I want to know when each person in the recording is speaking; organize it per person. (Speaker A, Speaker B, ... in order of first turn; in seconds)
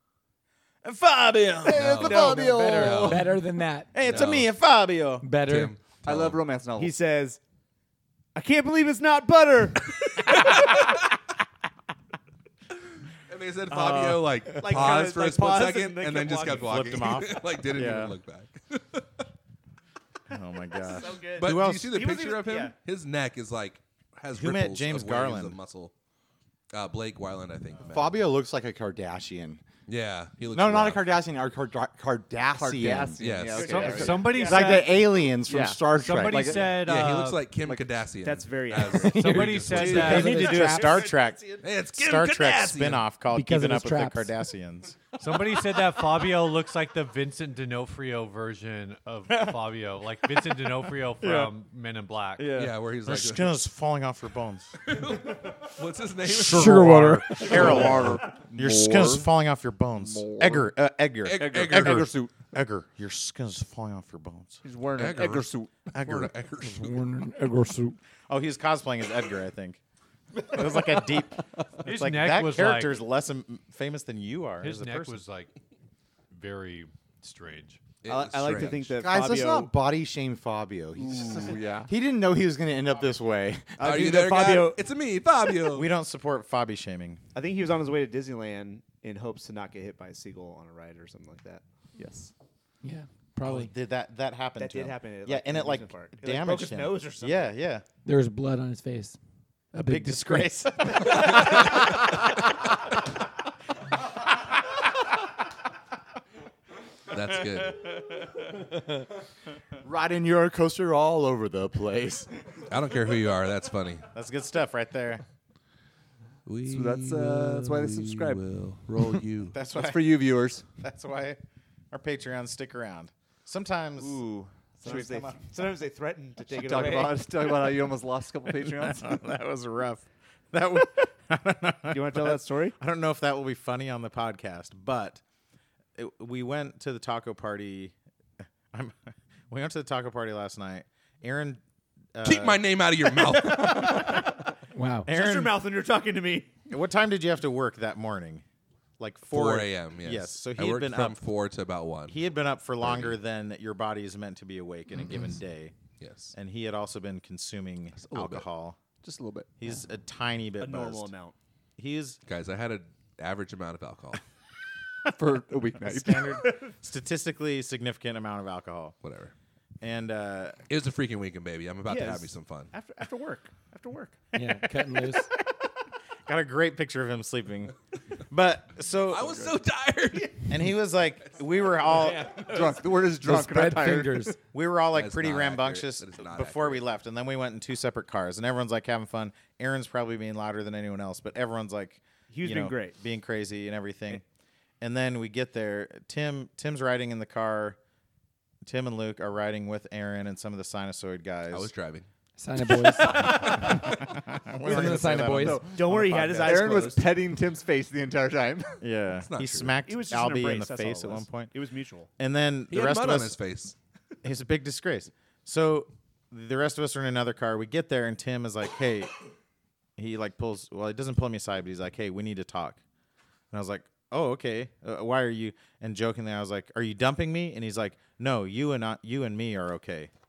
Speaker A: 0.8-1.8, 3.9-5.3, 16.6-18.1, 20.3-21.9, 24.4-25.6, 39.8-45.0, 53.0-54.7, 56.2-64.6, 65.9-66.3, 68.3-69.8, 70.5-75.2, 85.7-87.2, 93.4-97.8, 99.8-101.7, 114.1-115.2, 119.5-120.2, 120.8-121.4, 121.9-124.2, 124.8-125.4, 128.7-135.2, 135.9-137.9, 138.7-141.6, 142.1-143.9, 145.0-145.5, 146.7-148.4, 149.0-151.2, 152.1-155.7, 156.3-158.8, 159.6-161.1, 161.8-162.2, 165.8-168.9, 169.8-170.6, 176.2-177.7, 178.3-179.5, 180.5-182.4, 184.5-194.2, 194.8-197.8, 198.6-201.7, 203.3-205.7, 208.8-211.5, 212.2-213.4, 214.2-219.1, 220.0-222.8, 223.5-230.1
Speaker B: 1.6-3.2, 27.8-29.6, 30.5-36.6, 39.4-40.1, 79.0-84.0, 109.8-112.3, 182.5-183.9, 204.8-208.8
Speaker C: 1.7-3.4, 4.0-4.5, 5.4-6.4, 13.2-19.2, 21.4-25.9, 26.7-28.2, 29.9-31.0, 33.2-34.0, 36.7-40.1, 41.6-43.0, 52.5-53.5, 54.8-57.0, 61.2-62.1, 65.0-67.0, 78.0-78.9, 83.8-85.9, 107.1-107.8, 112.7-114.0, 116.5-119.5, 142.2-144.1, 149.3-152.2, 152.8-153.2, 156.0-156.3, 157.9-158.4, 162.2-164.2, 169.0-169.3, 170.7-172.7, 179.1-180.3, 184.9-186.8, 201.5-202.1, 209.2-209.8, 212.7-213.7
Speaker D: 1.8-3.0, 6.0-7.0, 32.5-36.7, 39.8-40.2, 57.4-59.3, 60.0-60.7, 61.3-62.3, 64.6-65.7, 81.0-81.9, 92.0-92.3, 116.6-118.4, 119.7-120.6, 124.0-125.4, 126.5-129.2, 159.0-159.6, 165.1-166.4, 182.2-184.3, 205.4-207.1
Speaker E: 2.0-2.9, 6.8-7.4, 8.3-9.9, 13.7-16.9, 20.7-22.7, 33.5-34.9, 38.2-39.3, 40.2-41.6, 78.0-79.7, 83.8-84.8, 87.3-91.6, 94.6-97.5, 124.8-127.2, 131.9-132.8, 145.1-146.5, 160.6-161.3, 171.9-174.3, 180.1-180.4, 192.3-193.0, 205.7-207.1, 209.8-212.1
Speaker F: 3.0-4.1, 5.2-5.7, 39.6-41.0, 43.3-44.3, 56.5-57.6, 66.6-68.0, 92.8-93.7, 98.0-99.2, 99.7-101.2, 144.7-145.1, 174.3-175.3, 183.2-184.3, 202.4-203.9, 204.6-205.8
Speaker G: 33.6-35.0, 35.9-37.4, 39.1-40.5, 45.2-52.6, 71.8-73.0, 74.6-75.6, 76.3-77.8